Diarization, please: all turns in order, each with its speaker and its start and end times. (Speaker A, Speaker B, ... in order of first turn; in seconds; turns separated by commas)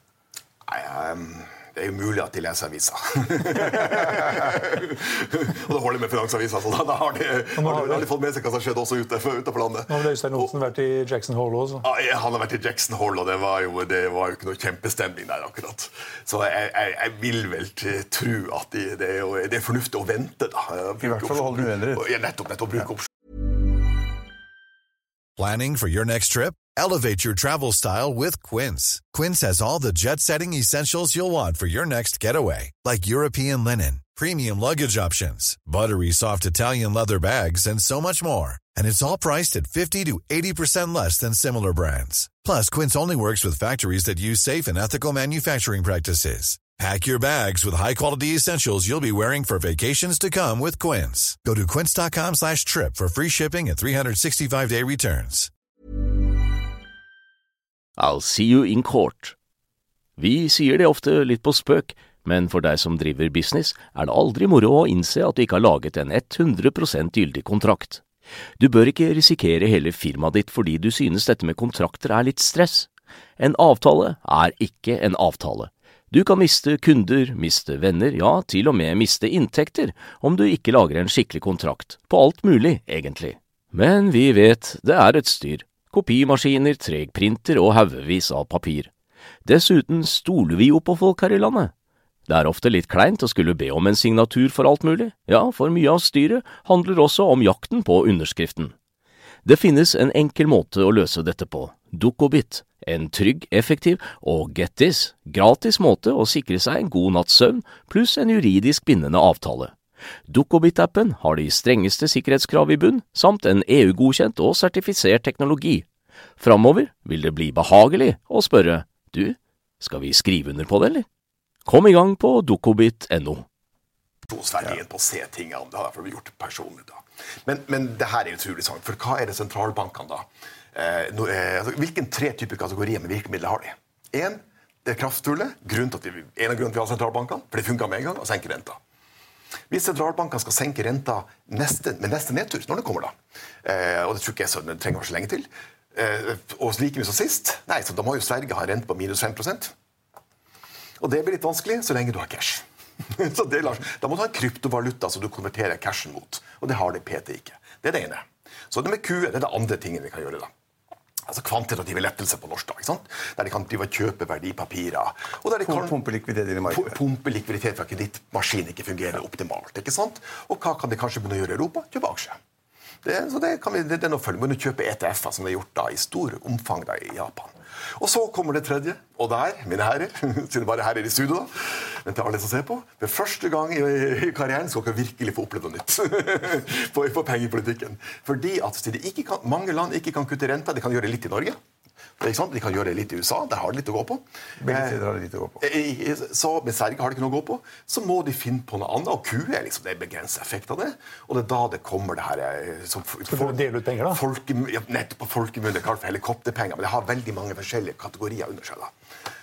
Speaker A: 0.6-10.5, Speaker B: 7.5-8.1, Speaker B: 9.9-11.8, Speaker A: 11.8-23.1, Speaker C: 21.0-22.0, Speaker D: 25.4-55.5, Speaker E: 58.0-59.3, Speaker E: 60.2-68.0, Speaker E: 68.6-88.9, Speaker E: 89.4-91.7, Speaker E: 92.3-98.7, Speaker E: 99.4-109.8, Speaker E: 110.3-115.9, Speaker E: 116.4-121.0, Speaker E: 121.7-123.5, Speaker A: 124.2-138.8, Speaker A: 139.7-149.7, Speaker A: 151.0-160.5, Speaker A: 161.3-165.9, Speaker C: 165.7-166.9, Speaker A: 166.7-172.4, Speaker A: 173.0-191.6, Speaker A: 192.2-195.0, Speaker C: 194.6-195.6, Speaker A: 195.6-208.9, Speaker B: 203.3-204.2